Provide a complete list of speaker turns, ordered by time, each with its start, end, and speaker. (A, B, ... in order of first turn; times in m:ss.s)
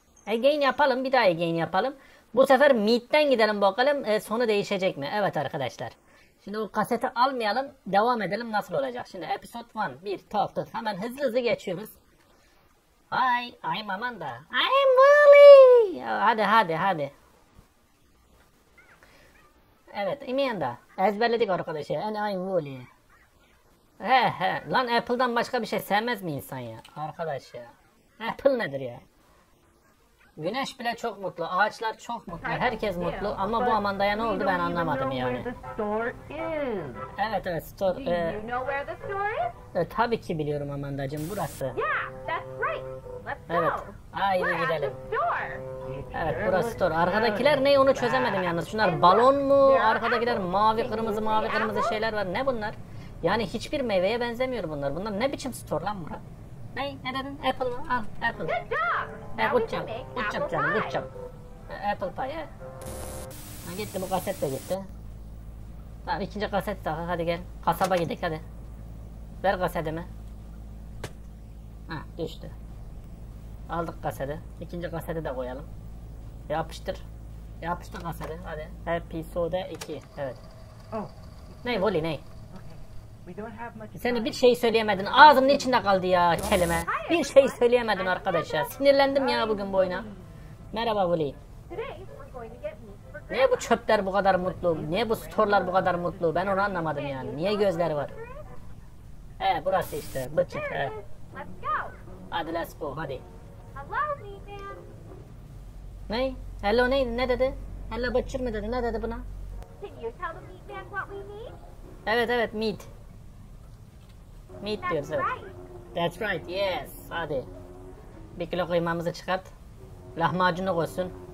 0:00.3-0:12.0 A
0:13.1-0:17.1 A
0:19.9-0:22.9 A
0:24.0-0:29.0 A
0:30.4-0:35.5 A
0:32.4-0:33.4 B
0:33.4-0:37.1 C
0:37.2-0:38.4 A
0:37.9-0:39.6 B
0:39.7-0:41.8 A
0:41.7-0:45.6 B
0:43.5-0:45.0 A
0:45.8-0:48.5 C
0:46.1-0:56.2 A
0:48.8-0:52.0 B
0:56.7-0:58.6 A
0:58.4-1:01.0 B
0:59.4-1:01.1 A
1:01.7-1:02.5 A
1:03.6-1:04.9 A
1:06.0-1:08.4 A
1:09.4-1:10.1 A
1:11.9-1:12.5 A
1:13.7-1:15.7 A
1:16.5-1:17.0 A
1:17.6-1:20.4 A
1:21.6-1:22.2 A
1:22.5-1:24.4 C
1:23.9-1:30.1 A
1:25.1-1:25.7 C
1:26.6-1:28.8 B
1:29.3-1:29.7 C
1:29.6-1:30.2 B
1:30.7-1:31.4 A
1:31.7-1:33.8 B
1:33.3-1:38.1 A
1:34.4-1:36.6 C
1:36.5-1:38.5 B
1:39.4-1:40.9 A
1:40.5-1:42.0 B
1:42.3-1:43.2 A
1:43.7-1:44.8 B
1:46.1-1:49.2 A
1:49.8-1:51.6 B
1:52.0-1:52.9 A
1:54.6-1:55.3 A
1:54.8-1:55.6 B
1:55.9-1:57.5 A
1:58.4-1:59.5 A
2:00.2-2:01.1 A